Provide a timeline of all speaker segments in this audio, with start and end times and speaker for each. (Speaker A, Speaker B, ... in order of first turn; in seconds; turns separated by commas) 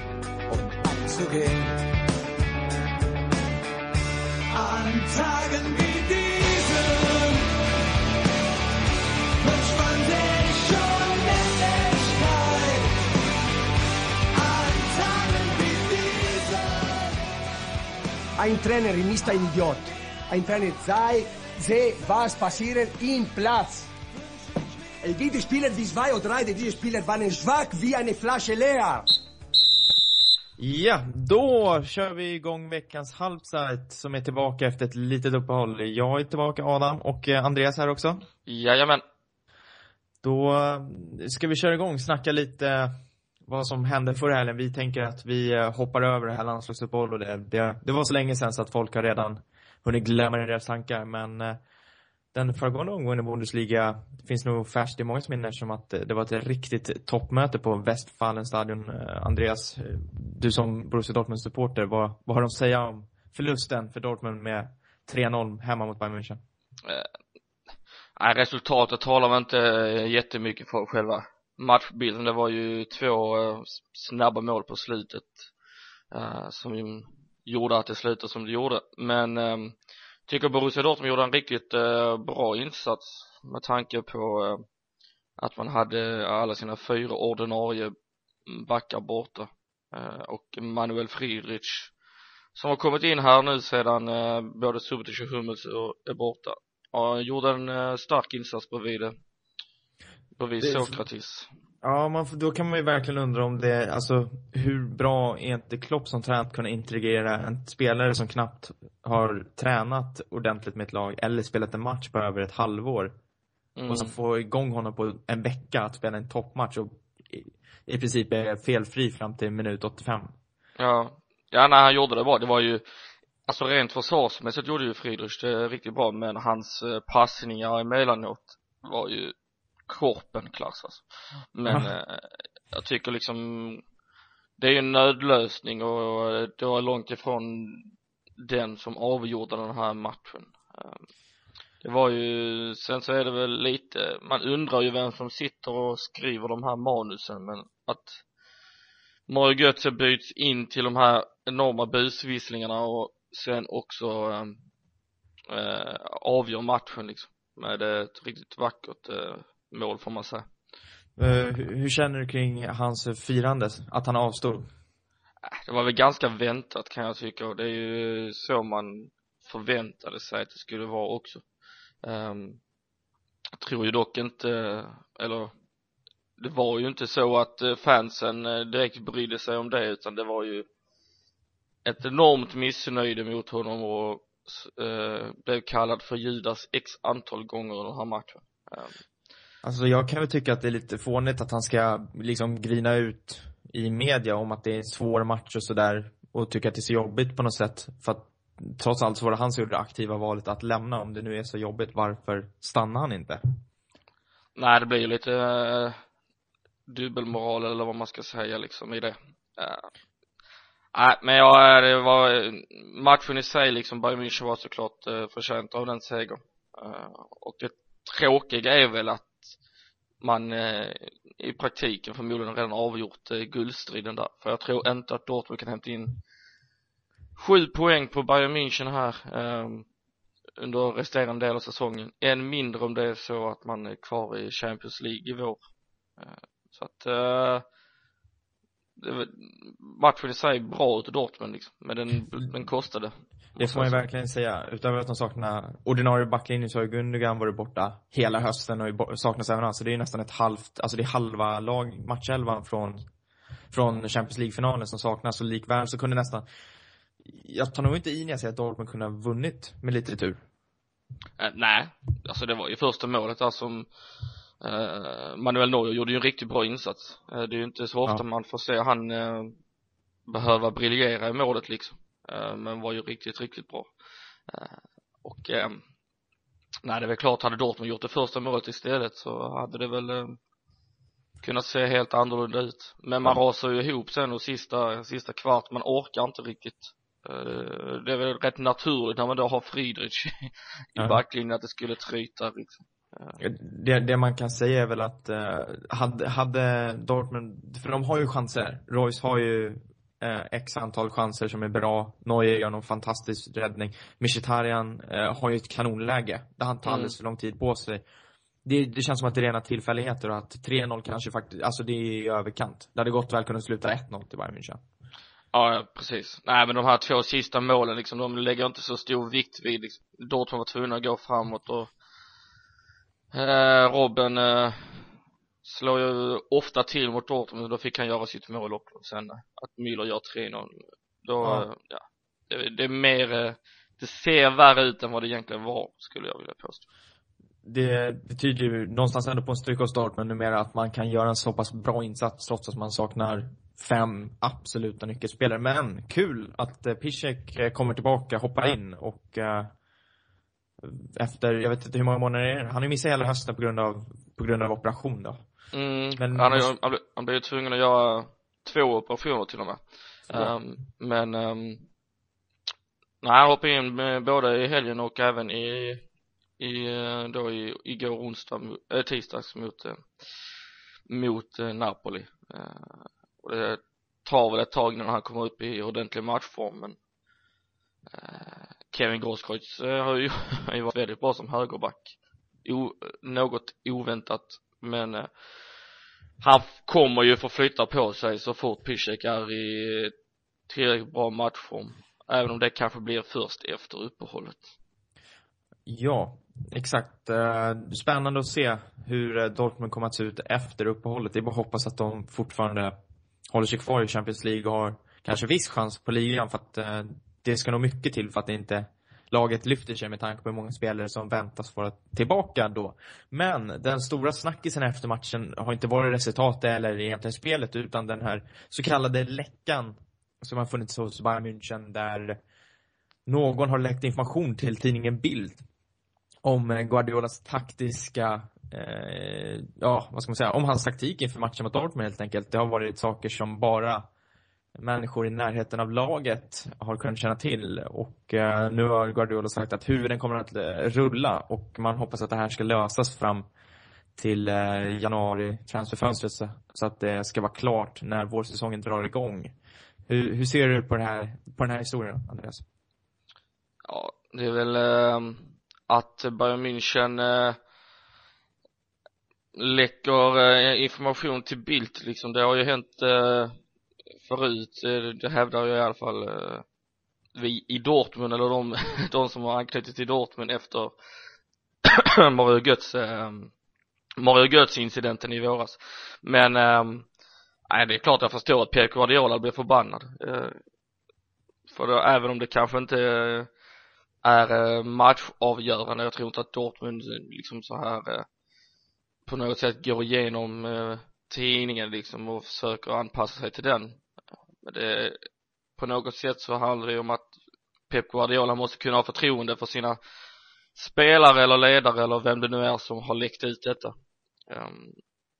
Speaker A: 0.5-1.7, Speaker A: 4.5-7.4, Speaker A: 9.4-12.9, Speaker A: 14.3-17.0, Speaker A: 18.4-23.9, Speaker A: 25.0-29.1, Speaker B: 30.6-38.3, Speaker C: 38.5-39.0, Speaker B: 40.2-42.9, Speaker B: 43.5-51.6, Speaker B: 52.3-66.4, Speaker C: 68.2-75.5, Speaker C: 76.1-79.8, Speaker C: 80.3-84.6, Speaker C: 85.4-87.9, Speaker C: 88.5-91.9, Speaker C: 92.5-99.2, Speaker C: 100.4-101.5, Speaker B: 100.6-101.0, Speaker B: 101.8-113.1, Speaker C: 113.8-114.1, Speaker B: 113.9-120.3, Speaker C: 120.8-122.8, Speaker C: 123.5-129.3, Speaker C: 129.9-133.8, Speaker C: 134.6-137.9, Speaker C: 138.4-141.0, Speaker C: 141.8-148.2, Speaker C: 149.3-154.6, Speaker C: 155.5-160.4, Speaker B: 161.2-164.7, Speaker C: 165.7-171.4, Speaker C: 172.0-172.6, Speaker C: 173.6-175.5, Speaker C: 176.4-180.7, Speaker C: 181.8-189.0, Speaker B: 189.6-203.4, Speaker C: 204.6-206.0, Speaker C: 206.9-209.9, Speaker C: 210.9-219.5, Speaker C: 220.2-226.2, Speaker C: 227.3-229.9, Speaker C: 230.6-235.6, Speaker C: 236.2-237.6, Speaker C: 239.0-244.0, Speaker B: 243.6-253.0, Speaker B: 253.7-256.4, Speaker B: 257.2-260.4, Speaker C: 261.4-263.9, Speaker C: 264.6-269.6, Speaker C: 270.3-273.9, Speaker C: 274.5-275.8, Speaker C: 276.8-280.4, Speaker C: 281.4-293.4, Speaker B: 293.4-308.0, Speaker C: 306.9-307.1, Speaker B: 308.6-314.8, Speaker C: 315.5-321.9, Speaker C: 323.3-325.0, Speaker C: 325.6-336.8, Speaker B: 337.6-349.7, Speaker B: 350.8-355.4, Speaker C: 355.7-361.9, Speaker B: 356.2-356.7, Speaker B: 360.3-360.5, Speaker C: 363.2-366.0, Speaker C: 366.6-370.1, Speaker C: 371.1-377.0, Speaker C: 378.1-385.3, Speaker C: 386.4-390.1, Speaker C: 390.7-394.7, Speaker B: 395.9-402.9, Speaker B: 403.5-422.4, Speaker B: 423.2-425.6, Speaker B: 426.4-434.1, Speaker B: 434.8-443.4, Speaker B: 444.1-449.5, Speaker B: 450.1-452.6, Speaker C: 453.8-457.6, Speaker C: 459.5-463.5, Speaker C: 464.2-466.6, Speaker C: 467.4-470.9, Speaker C: 471.8-473.5, Speaker C: 474.2-477.1, Speaker C: 477.7-480.6, Speaker C: 481.7-483.5, Speaker C: 484.2-488.2, Speaker C: 489.2-494.0, Speaker C: 494.6-495.2, Speaker C: 495.8-497.3, Speaker C: 497.9-500.0, Speaker C: 500.8-503.9, Speaker C: 504.5-505.0